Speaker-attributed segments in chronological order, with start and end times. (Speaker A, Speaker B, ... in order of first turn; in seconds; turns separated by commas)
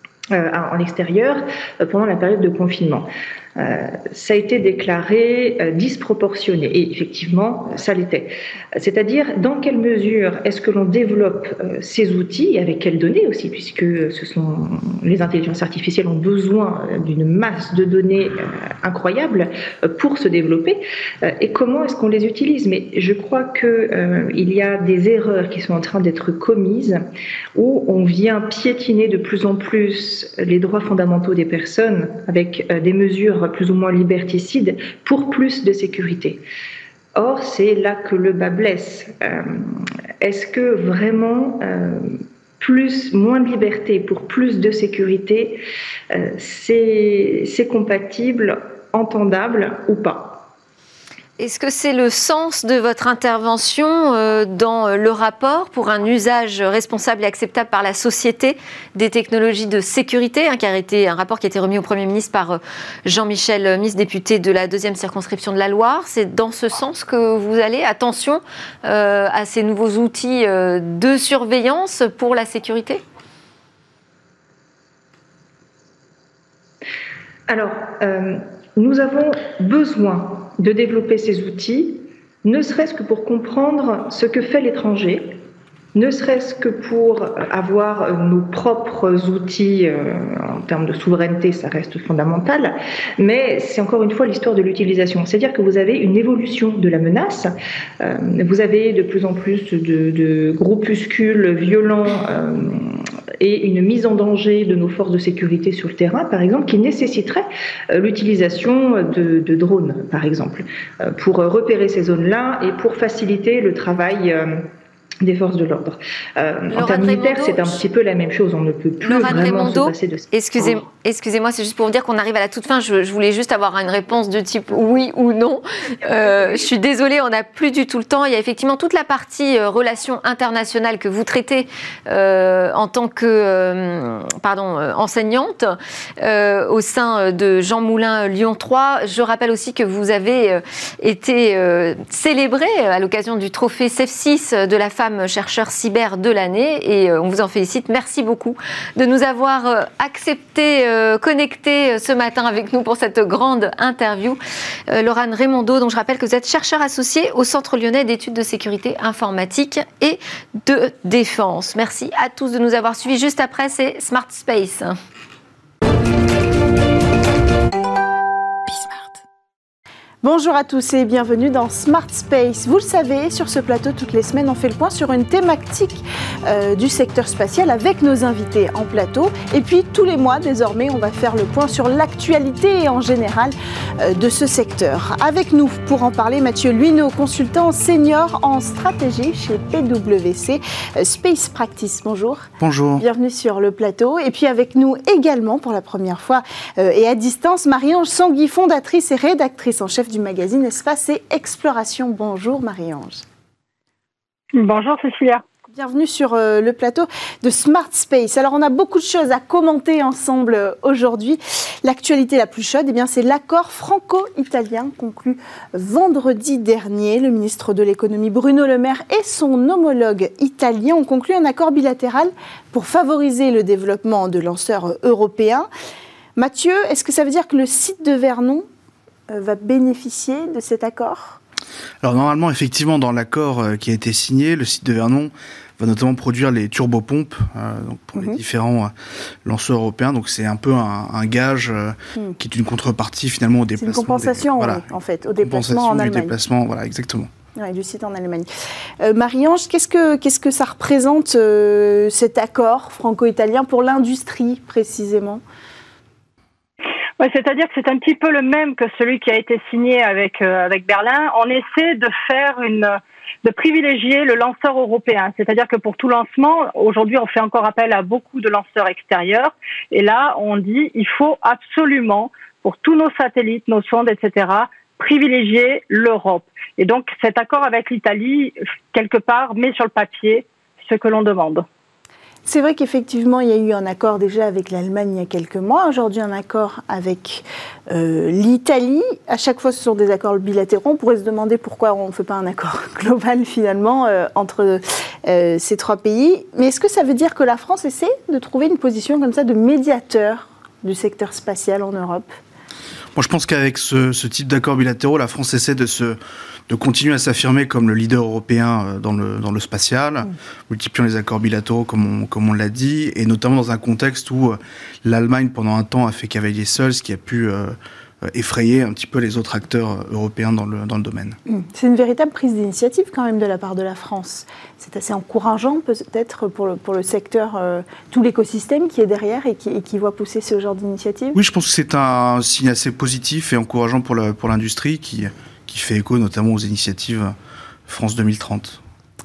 Speaker A: 0.3-27.0, Speaker A: 27.5-36.4, Speaker A: 37.1-50.5, Speaker B: 51.4-73.0, Speaker A: 77.5-85.4, Speaker A: 85.9-114.7, Speaker A: 115.2-120.8, Speaker B: 116.7-117.8, Speaker B: 119.0-165.0, Speaker C: 168.7-169.1, Speaker C: 170.2-203.2, Speaker D: 192.6-193.0, Speaker E: 204.5-205.4, Speaker C: 205.7-225.7, Speaker C: 226.3-228.7, Speaker C: 229.3-231.4, Speaker D: 232.0-238.9, Speaker D: 239.4-244.8, Speaker C: 243.8-246.3, Speaker D: 245.4-247.3, Speaker C: 247.6-248.5, Speaker C: 249.0-255.4, Speaker E: 257.2-281.6, Speaker C: 282.4-302.2, Speaker D: 303.1-317.8, Speaker D: 318.3-321.4, Speaker C: 321.5-331.4, Speaker D: 331.3-337.3, Speaker D: 337.9-338.8